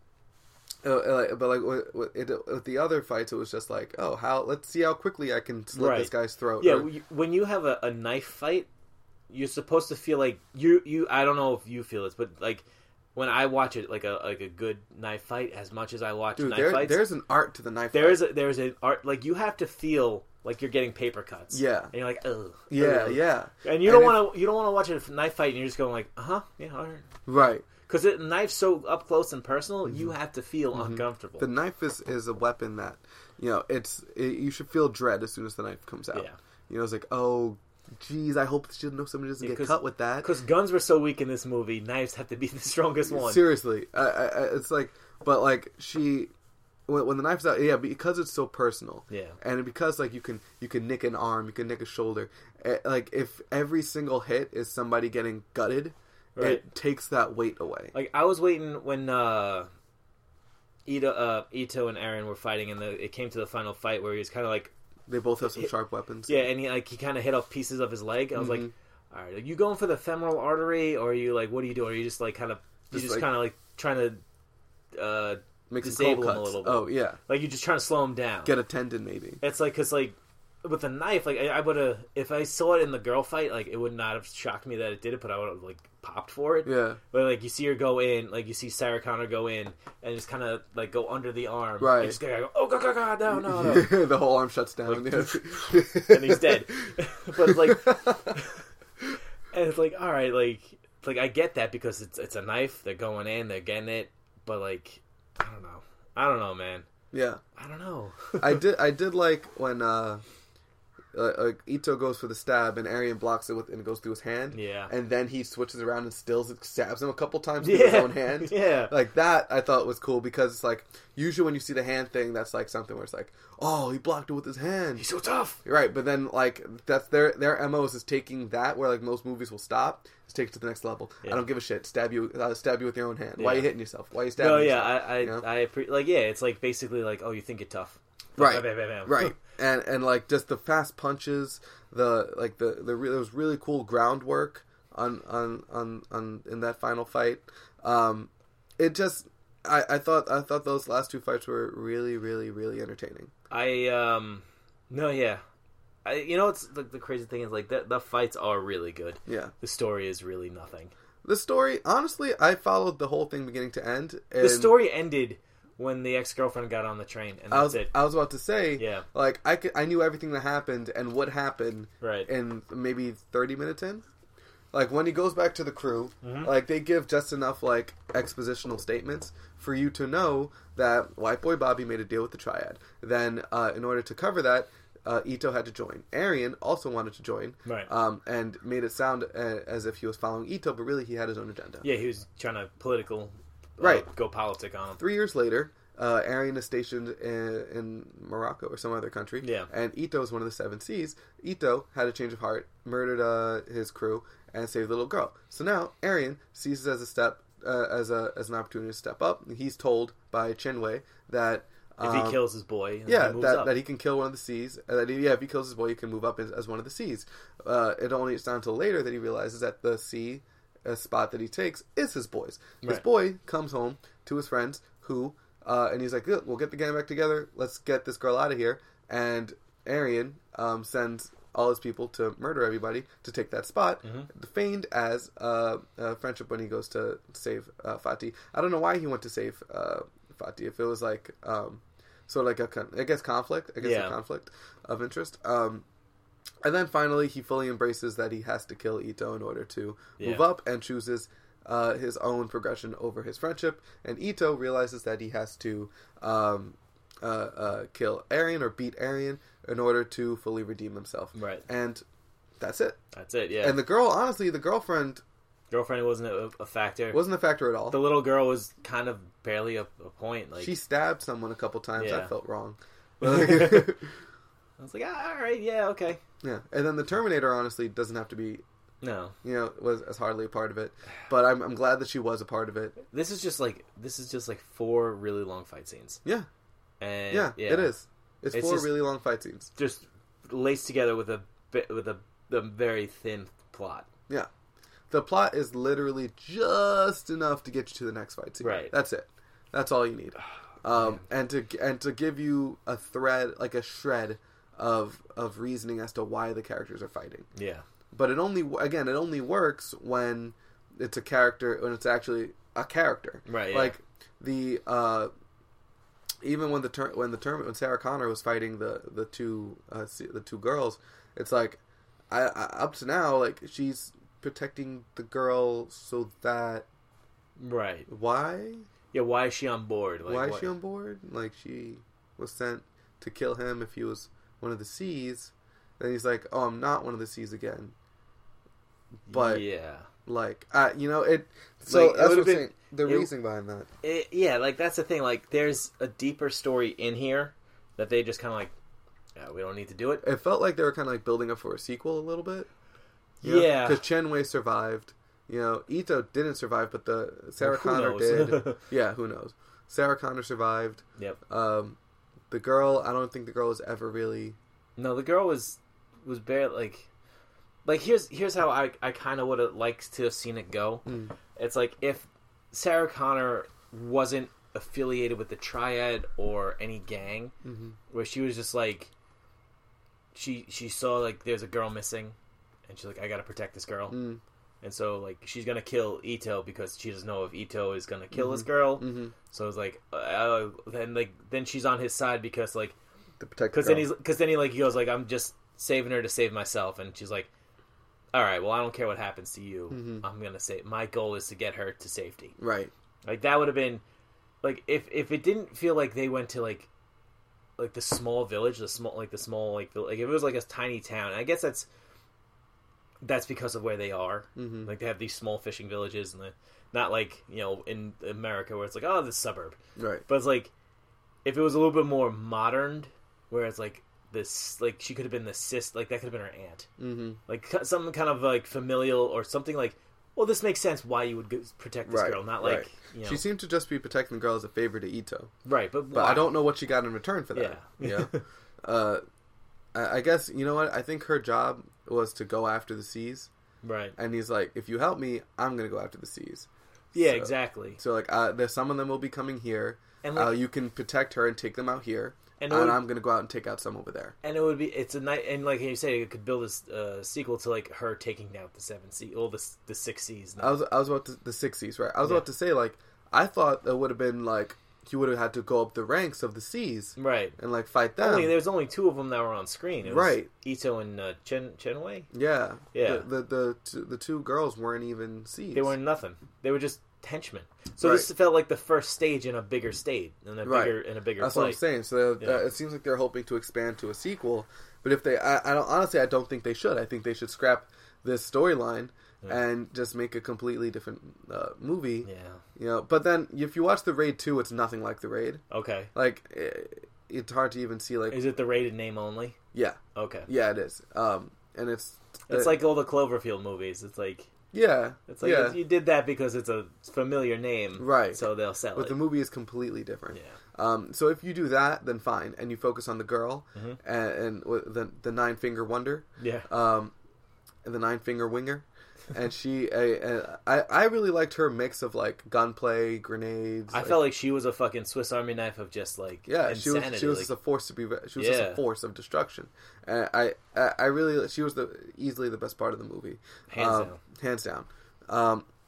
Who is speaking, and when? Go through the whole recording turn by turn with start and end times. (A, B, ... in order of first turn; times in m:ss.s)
0:00.8-0:06.9 A
0:05.7-0:08.7 B
0:09.3-0:12.6 B
0:13.2-0:17.0 B
0:16.4-0:18.2 A
0:17.9-0:27.1 B
0:21.5-0:21.9 A
0:22.7-0:24.2 A
0:27.3-0:27.7 A
0:27.8-0:31.5 B
0:30.7-0:40.3 A
0:39.4-0:43.4 B
0:43.1-0:46.3 A
0:46.9-0:57.9 A
0:49.1-0:49.4 B
0:56.4-0:56.7 B
0:57.9-0:59.7 B
1:00.9-1:04.7 B
1:05.1-1:06.4 A
1:06.3-1:14.2 B
1:08.4-1:08.7 A
1:12.9-1:13.3 A
1:14.9-1:18.6 B
1:15.7-1:17.2 A
1:18.4-1:19.4 A
1:19.4-1:34.0 B
1:26.6-1:27.0 A
1:31.8-1:32.2 A
1:33.3-1:38.4 A
1:34.8-1:38.6 B
1:39.5-1:46.9 B
1:47.1-1:47.4 A
1:47.6-1:48.6 B
1:48.4-1:50.2 A
1:51.1-2:05.0 A
1:54.5-1:54.9 B
1:57.6-1:58.9 B
2:05.0-2:05.6 B
2:05.6-2:15.4 A
2:13.4-2:13.7 B
2:14.4-2:19.4 B
2:18.4-2:33.3 A
2:33.5-2:35.4 B
2:36.0-2:40.9 B
2:39.3-2:39.5 A
2:41.2-2:44.7 A
2:44.4-2:48.0 B
2:47.5-2:54.0 A
2:48.8-2:49.1 B
2:52.0-2:52.3 B
2:54.7-3:11.9 A
2:56.2-2:56.5 B
3:11.8-3:15.0 B
3:13.8-3:14.1 A
3:15.0-3:32.4 A
3:19.4-3:19.7 B
3:32.0-3:33.7 B
3:33.1-4:05.8 A
3:54.0-3:54.3 B
4:03.8-4:04.2 B
4:06.6-4:22.0 A
4:10.2-4:10.5 B
4:21.4-4:21.6 B
4:22.6-4:23.0 A
4:23.2-4:23.8 B
4:23.6-4:25.2 A
4:25.7-4:27.2 B
4:27.1-4:28.0 A
4:27.9-4:30.7 B
4:30.6-4:34.1 A
4:32.0-4:32.3 B
4:33.2-4:33.9 B
4:34.8-4:36.2 B
4:36.4-4:38.6 A
4:39.0-4:39.4 B
4:39.4-4:43.0 A
4:43.1-4:46.2 B
4:47.0-4:47.9 B
4:47.3-4:49.7 A
4:48.5-4:49.0 B
4:49.8-4:54.1 B
4:55.1-5:07.5 A
4:58.6-4:58.9 B
5:01.0-5:01.2 B
5:07.6-5:07.8 B
5:08.1-5:15.3 A
5:13.5-5:14.0 B
5:16.4-5:26.9 A
5:27.6-5:28.1 B
5:28.1-5:28.9 A
5:29.1-5:30.7 B
5:30.3-5:38.0 A
5:39.3-5:39.6 A
5:39.3-5:40.1 B
5:40.3-5:43.9 A
5:41.9-5:43.3 B
5:44.0-5:48.7 B
5:49.4-5:50.2 B
5:50.2-5:52.7 A
5:53.4-5:54.0 B
5:53.4-6:02.0 A
5:57.6-5:58.8 B
6:02.5-6:04.6 A
6:05.0-6:07.1 B
6:07.8-6:17.5 B
6:11.1-6:11.4 A
6:17.6-6:18.0 A
6:18.1-6:19.1 B
6:20.4-6:22.4 B
6:22.9-6:24.2 B
6:24.1-6:24.4 A
6:24.8-6:33.0 B
6:28.3-6:29.3 A
6:33.4-6:34.1 A
6:33.7-6:37.5 B
6:38.3-6:42.6 B
6:39.9-6:40.2 A
6:42.6-6:42.9 A
6:43.2-6:44.0 B
6:44.6-6:46.9 B
6:47.8-6:51.9 B
6:53.2-7:00.7 B
6:54.6-6:54.9 A
7:00.0-7:00.2 A
7:01.4-7:06.9 B
7:07.0-7:07.4 A
7:07.5-7:13.4 B
7:12.1-7:15.5 A
7:15.6-7:16.6 B
7:16.1-7:19.2 A
7:17.5-7:18.4 B
7:19.9-7:23.5 A
7:23.8-7:24.2 B
7:24.2-7:34.4 A
7:27.1-7:28.0 B
7:30.2-7:30.6 B
7:32.6-7:33.0 B
7:34.4-7:40.8 B
7:40.6-7:48.6 A
7:47.2-7:47.6 B
7:48.2-7:52.3 B
7:50.0-7:50.5 A
7:52.3-7:55.9 A
7:52.9-7:53.3 B
7:55.7-8:01.8 B
7:58.0-7:58.3 A
8:00.6-8:15.6 A
8:02.4-8:02.6 B
8:12.2-8:12.6 B
8:15.7-8:16.1 B
8:16.1-8:18.4 A
8:18.3-8:19.6 B
8:19.7-8:22.8 A
8:20.2-8:20.5 B
8:22.5-8:24.5 B
8:24.7-8:25.8 A
8:25.3-8:29.2 B
8:28.0-8:28.4 A
8:28.9-8:37.1 A
8:36.4-8:36.7 B
8:37.8-8:44.2 A
8:43.9-8:47.5 B
8:46.5-8:55.7 A
8:48.4-8:48.8 B
8:53.7-8:54.2 B